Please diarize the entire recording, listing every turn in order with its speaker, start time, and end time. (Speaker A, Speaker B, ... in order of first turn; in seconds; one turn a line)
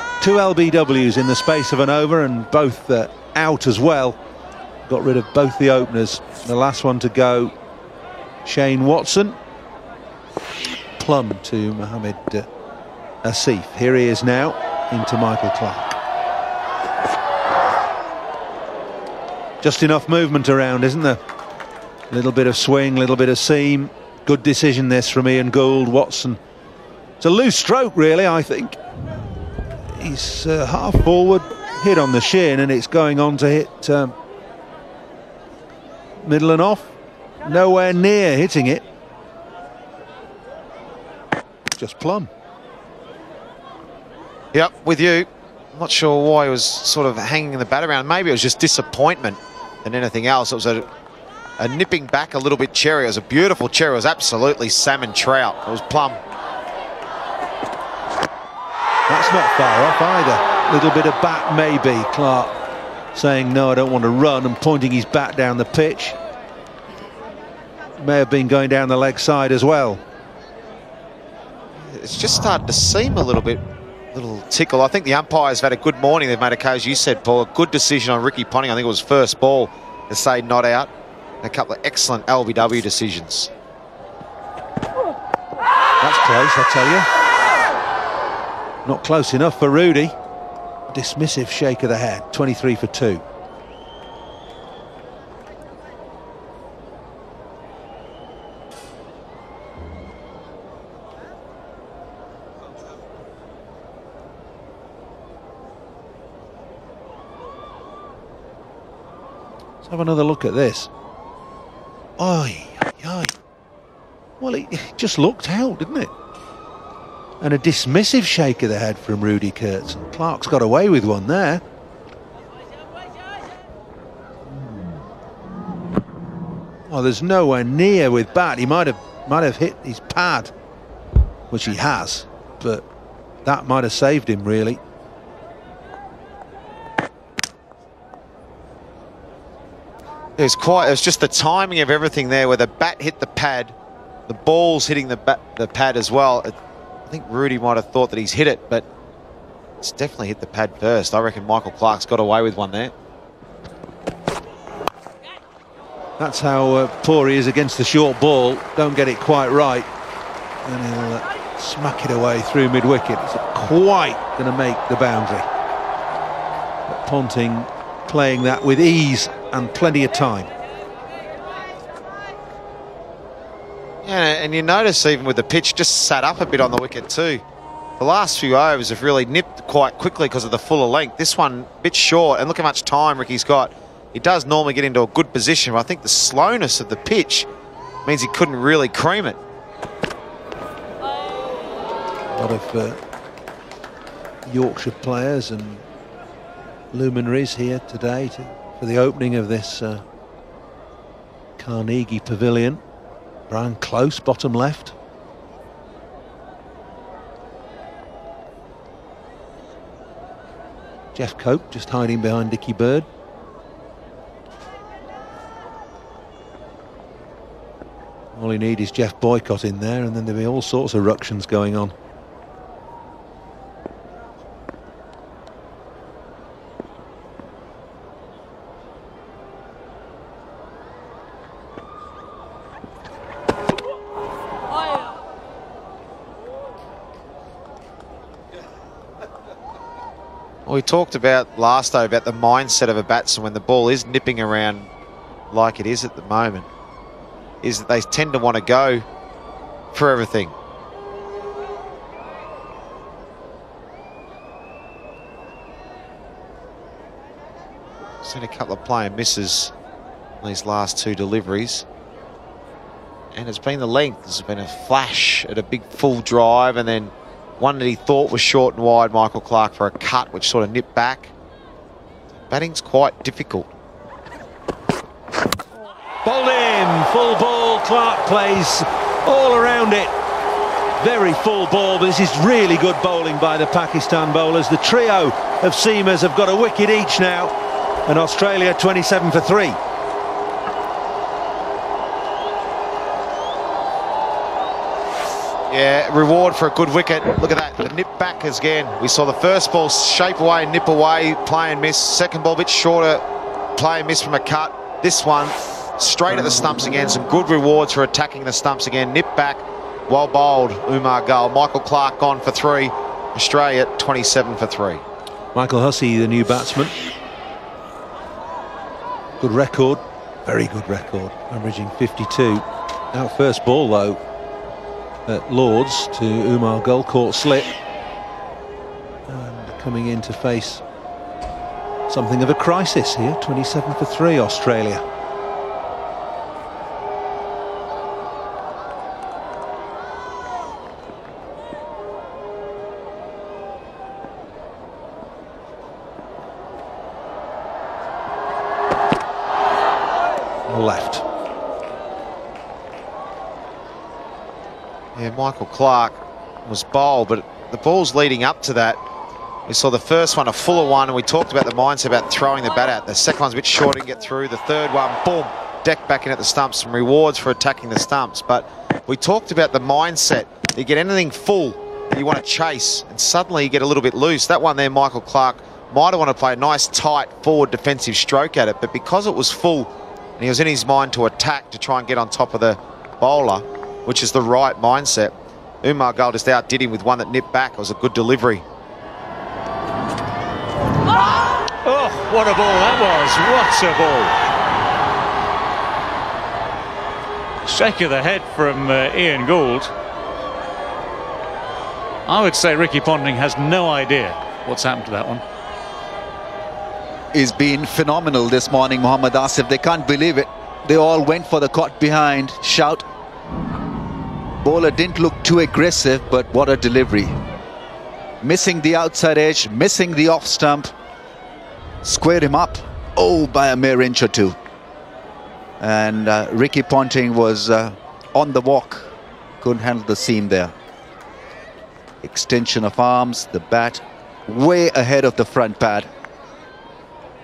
Speaker A: 0.2-4.2
Speaker A: 4.8-7.5
Speaker A: 8.4-9.4
Speaker A: 11.0-12.4
Speaker A: 13.2-16.0
Speaker A: 19.6-21.2
Speaker A: 22.1-26.4
Speaker A: 27.2-28.8
Speaker A: 29.9-34.1
Speaker A: 36.2-38.8
Speaker A: 41.8-42.3
Speaker B: 44.5-50.9
Speaker B: 51.6-56.2
Speaker A: 59.1-62.5
Speaker A: 63.1-66.2
Speaker A: 68.0-70.0
Speaker B: 71.8-73.6
Speaker B: 74.1-80.9
Speaker B: 81.4-83.5
Speaker A: 86.0-87.1
Speaker A: 88.8-90.2
Speaker A: 90.9-93.2
Speaker A: 109.8-110.9
Speaker A: 112.2-113.3
Speaker A: 114.4-116.1
Speaker A: 117.4-121.6
Speaker A: 126.9-130.5
Speaker A: 131.5-132.8
Speaker A: 133.4-134.8
Speaker B: 140.4-143.7
Speaker B: 144.3-146.5
Speaker B: 147.1-148.8
Speaker B: 149.8-152.9
Speaker A: 156.2-159.9
Speaker A: 160.6-165.5
Speaker A: 166.9-170.5
Speaker B: 174.0-177.4
Speaker B: 178.0-187.5
Speaker B: 188.0-189.4
Speaker A: 192.3-193.0
Speaker A: 194.4-195.8
Speaker A: 196.9-200.0
Speaker A: 201.6-202.8
Speaker A: 203.5-204.9
Speaker A: 211.1-213.1
Speaker A: 218.3-221.9
Speaker B: 240.7-244.9
Speaker B: 245.5-246.7
Speaker B: 247.6-249.0
Speaker B: 249.9-250.5
Speaker B: 258.2-259.7
Speaker B: 260.4-261.8
Speaker B: 263.3-271.3
Speaker B: 272.5-273.7
Speaker A: 276.2-280.1
Speaker A: 281.0-287.5
Speaker A: 288.1-289.8
Speaker B: 295.7-303.2
Speaker B: 303.8-315.0
Speaker A: 315.5-316.9
Speaker A: 319.4-324.2
Speaker A: 325.2-327.7
Speaker A: 329.3-330.8
Speaker A: 332.1-335.0
Speaker A: 350.7-351.2
Speaker B: 355.1-359.0
Speaker B: 359.6-388.6
Speaker C: 391.8-394.4
Speaker C: 397.6-399.9
Speaker C: 402.2-405.4
Speaker D: 407.3-413.0
Speaker D: 414.6-417.4
Speaker D: 418.4-420.9
Speaker D: 422.0-424.5
Speaker D: 425.8-430.7
Speaker D: 432.2-436.1